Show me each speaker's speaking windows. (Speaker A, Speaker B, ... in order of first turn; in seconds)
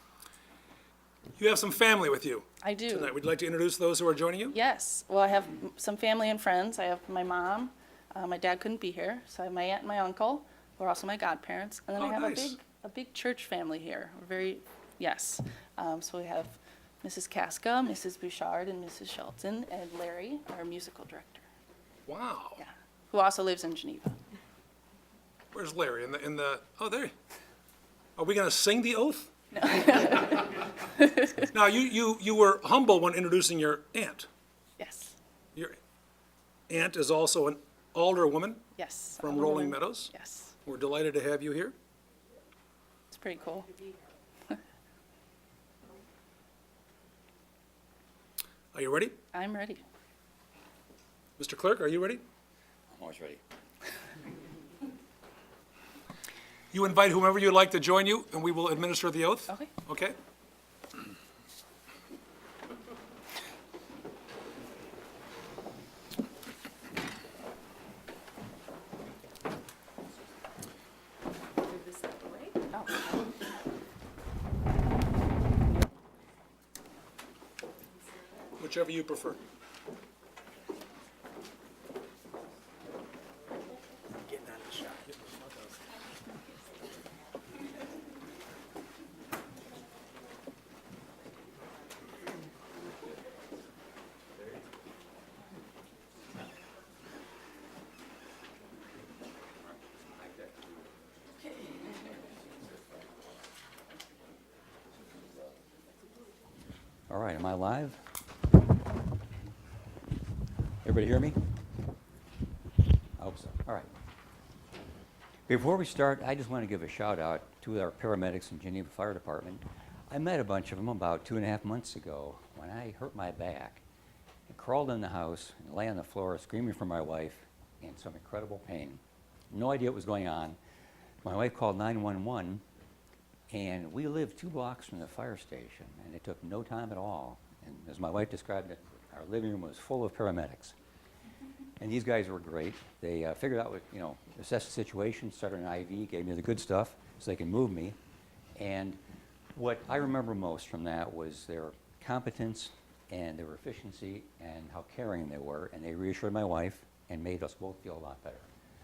Speaker A: 1.4-4.6, 12.0-12.5, 22.1-22.6, 25.5-27.1, 28.2-29.3, 31.5-34.3, 36.7-38.6, 39.2-40.1, 40.6-41.7, 48.7-49.1, 51.4-52.2, 56.7-60.1, 78.6-79.4, 84.3-85.8
Speaker B: 2.6-3.1, 4.5-21.4, 22.6-24.2, 29.5-31.4, 34.8-35.1, 38.8-40.5, 43.1-43.7, 49.3-49.8, 72.7-73.2
Speaker C: 52.9-53.4, 100.2-100.6, 107.1-108.0, 110.8-111.4, 113.2-113.9, 115.5-123.8, 124.5-130.6, 131.2-132.6, 133.5-140.7, 141.8-147.9, 148.6-149.0, 149.5-158.5